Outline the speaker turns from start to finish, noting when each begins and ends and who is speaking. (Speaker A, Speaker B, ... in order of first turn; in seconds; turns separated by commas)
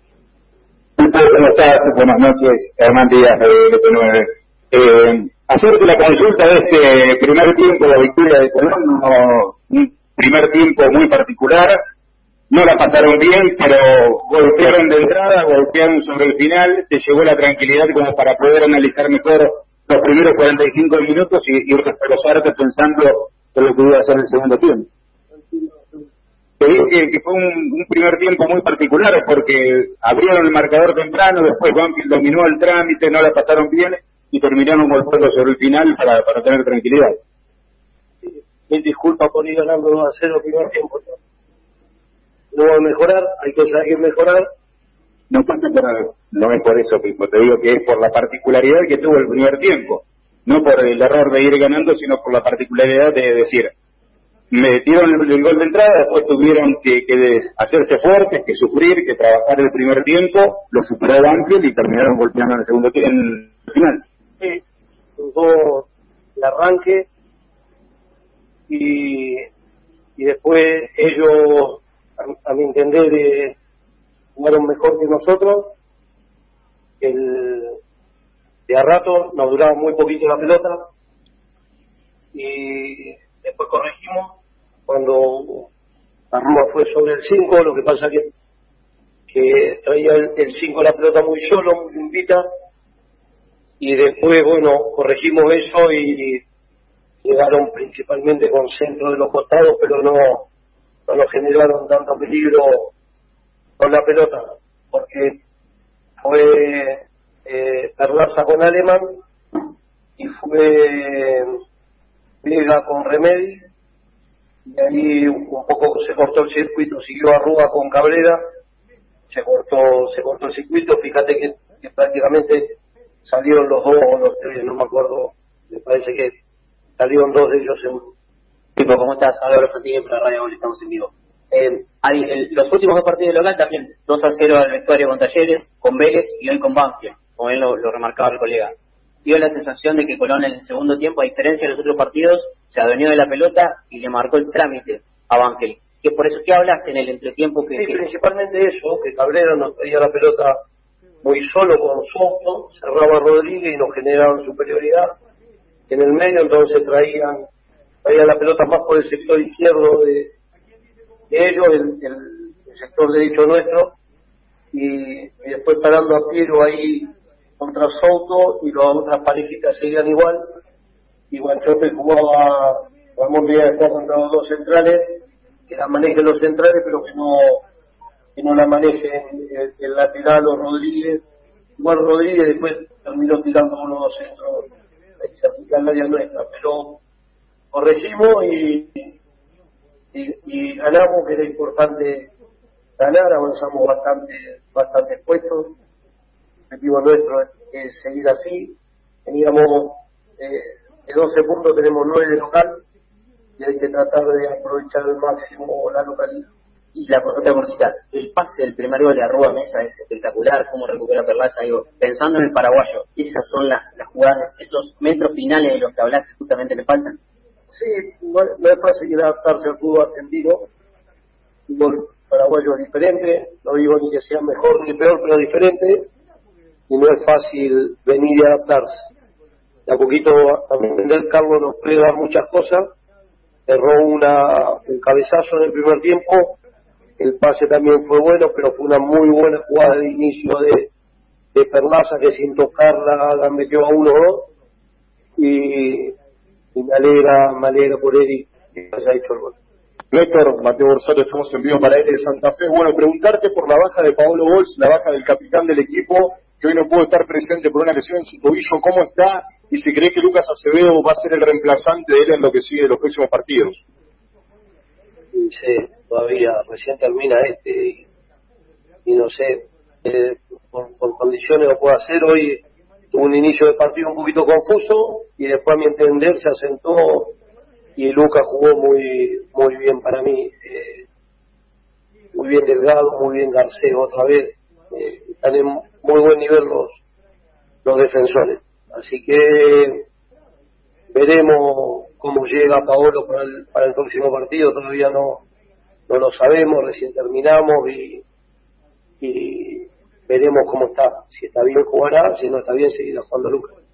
Speaker A: 1.0-11.8, Speaker A: 12.5-24.9, Speaker B: 25.4-26.0, Speaker A: 26.6-37.1, Speaker B: 38.2-41.2, Speaker B: 42.5-44.5, Speaker A: 45.3-53.7, Speaker A: 54.5-64.0, Speaker B: 65.2-67.1, Speaker B: 68.7-69.5, Speaker B: 70.2-73.6, Speaker B: 74.4-75.7, Speaker B: 77.0-77.8, Speaker B: 78.7-80.8, Speaker B: 82.3-84.4, Speaker B: 84.9-85.7, Speaker B: 86.3-88.3, Speaker B: 89.3-92.4, Speaker B: 93.8-96.4, Speaker B: 97.2-100.5, Speaker B: 101.1-102.9, Speaker B: 103.8-105.4, Speaker B: 106.2-109.1, Speaker B: 110.2-111.5, Speaker B: 112.4-113.6, Speaker B: 114.7-118.4, Speaker B: 119.3-122.7, Speaker B: 123.2-126.3, Speaker B: 127.0-128.1, Speaker C: 128.8-138.7, Speaker C: 139.2-148.0, Speaker B: 147.8-150.6, Speaker B: 151.2-155.1, Speaker B: 155.9-157.5, Speaker B: 158.0-160.3, Speaker B: 161.3-163.9, Speaker B: 164.7-170.4, Speaker B: 171.3-177.6, Speaker B: 178.4-181.2, Speaker B: 181.8-184.7, Speaker B: 185.2-187.0, Speaker B: 187.7-189.1, Speaker B: 190.1-192.3, Speaker B: 193.0-195.8, Speaker B: 196.7-202.8, Speaker B: 203.6-206.5, Speaker C: 206.9-217.2, Speaker B: 217.7-220.7, Speaker B: 221.7-226.1, Speaker B: 226.9-228.9, Speaker B: 229.9-232.9, Speaker B: 233.7-236.6, Speaker B: 237.2-240.9, Speaker B: 241.5-244.5, Speaker B: 245.4-246.2, Speaker B: 246.8-249.6, Speaker D: 250.1-263.8, Speaker B: 265.4-268.0, Speaker B: 269.1-277.4, Speaker B: 278.0-281.0, Speaker B: 282.3-287.0, Speaker B: 287.9-290.0, Speaker B: 291.1-295.4, Speaker B: 296.1-298.2, Speaker B: 299.2-303.7